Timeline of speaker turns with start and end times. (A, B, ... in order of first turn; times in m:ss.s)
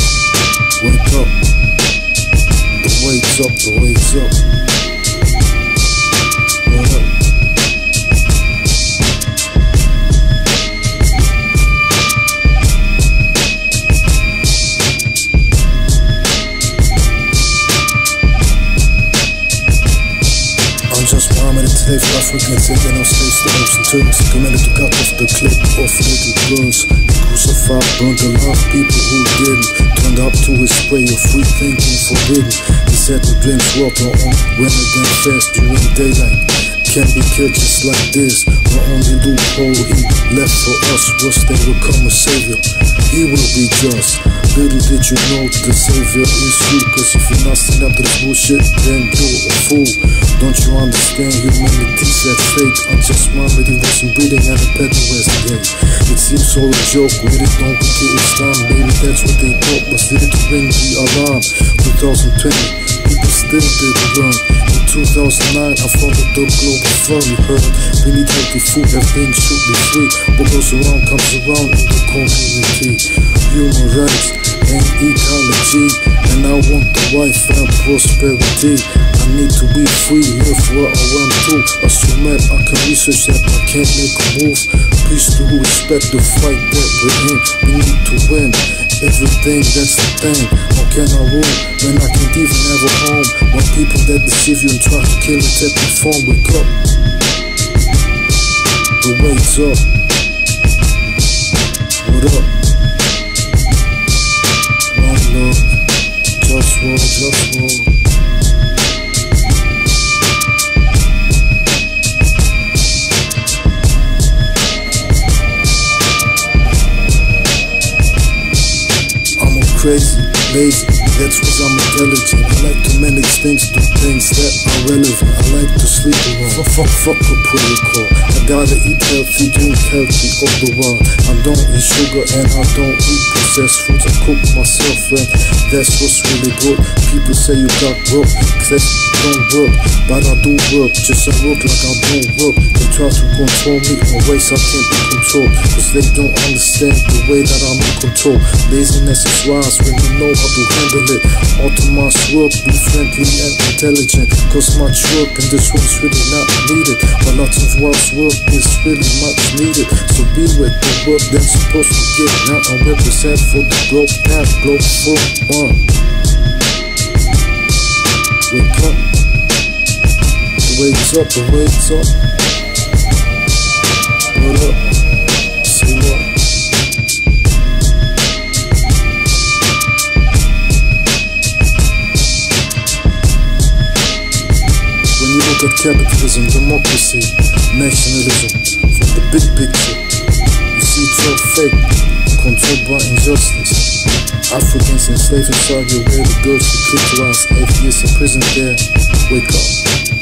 0:00.8-0:01.4 A
0:02.8-0:04.4 A
0:06.7-0:07.1 A
0:20.9-1:36.7 A
1:39.0-1:39.9 A
1:42.0-1:42.6 A
1:44.9-1:45.8 A
1:46.4-1:47.9 A
1:59.4-2:45.8 A
2:48.5-2:49.1 A
2:50.6-2:52.2 A
2:54.3-2:54.9 A
2:55.6-2:56.3 A
3:05.2-3:10.0 A
3:10.7-3:13.9 A
3:14.5-3:19.8 A